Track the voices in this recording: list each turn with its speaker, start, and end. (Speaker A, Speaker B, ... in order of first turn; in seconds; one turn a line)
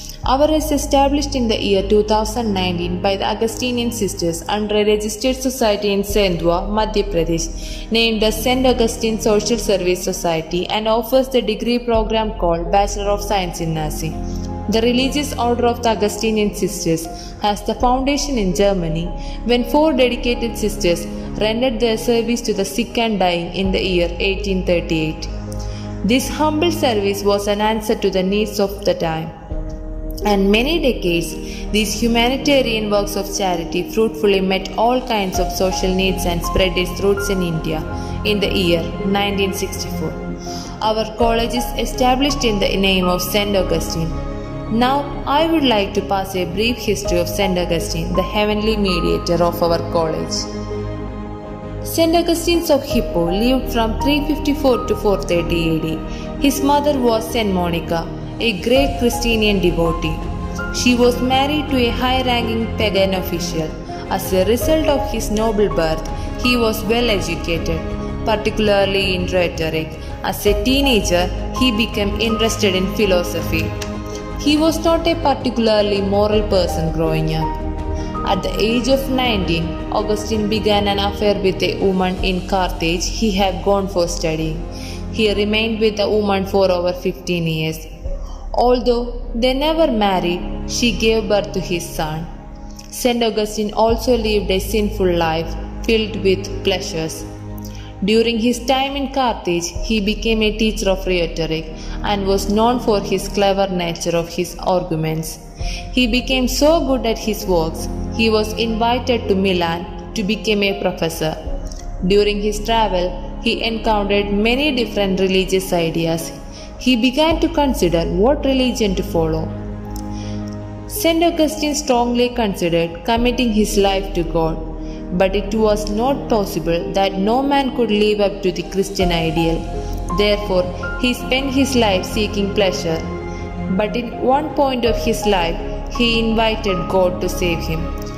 Speaker A: 0.2-25.3
Speaker A: 26.0-29.4
Speaker A: 30.3-40.2
Speaker A: 40.8-44.2
Speaker A: 44.7-50.5
Speaker A: 51.8-73.7
Speaker A: 74.4-77.5
Speaker A: 78.2-87.9
Speaker A: 88.5-92.3
Speaker A: 92.9-97.3
Speaker A: 98.0-105.4
Speaker A: 105.9-111.4
Speaker A: 112.0-119.5
Speaker A: 120.9-133.1
Speaker A: 133.7-137.9